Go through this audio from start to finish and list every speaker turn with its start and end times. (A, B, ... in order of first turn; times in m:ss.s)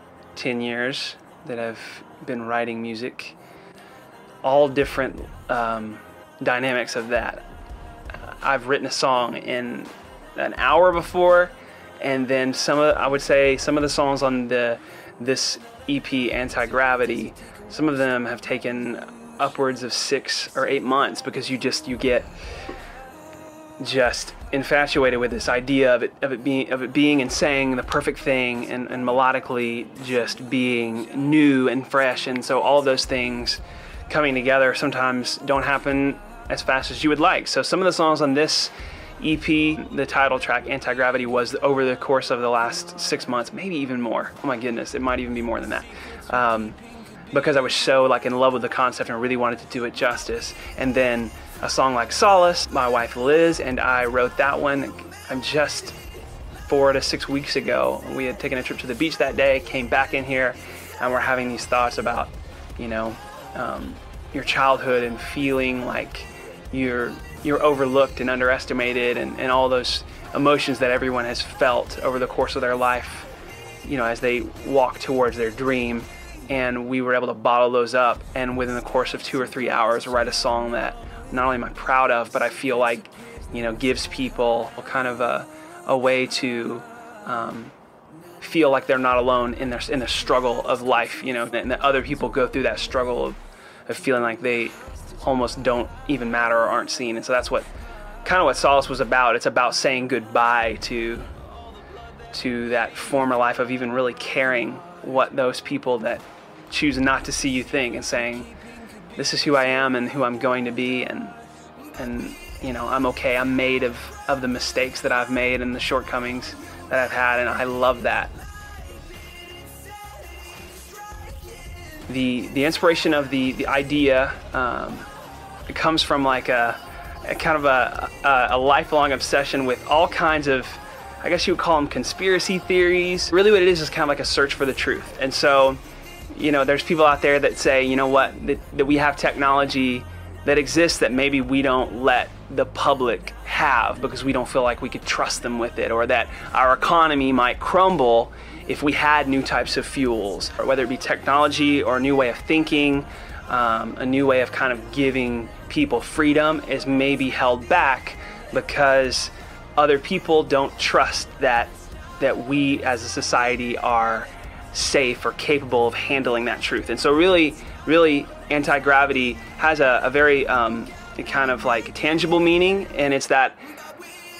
0:00.3-0:03.4 A
0:04.4-0:07.4 A
0:08.1-0:22.3 A
0:23.8-0:46.8 A
0:47.3-0:56.0 A
0:56.6-1:13.3 A
1:13.8-1:27.7 A
1:28.4-1:37.7 A
1:38.2-1:41.3 A
1:42.3-1:48.5 A
1:49.2-1:51.4 A
1:52.0-1:58.3 A
2:02.1-2:05.1 A
2:05.7-2:15.8 A
2:16.3-2:53.6 A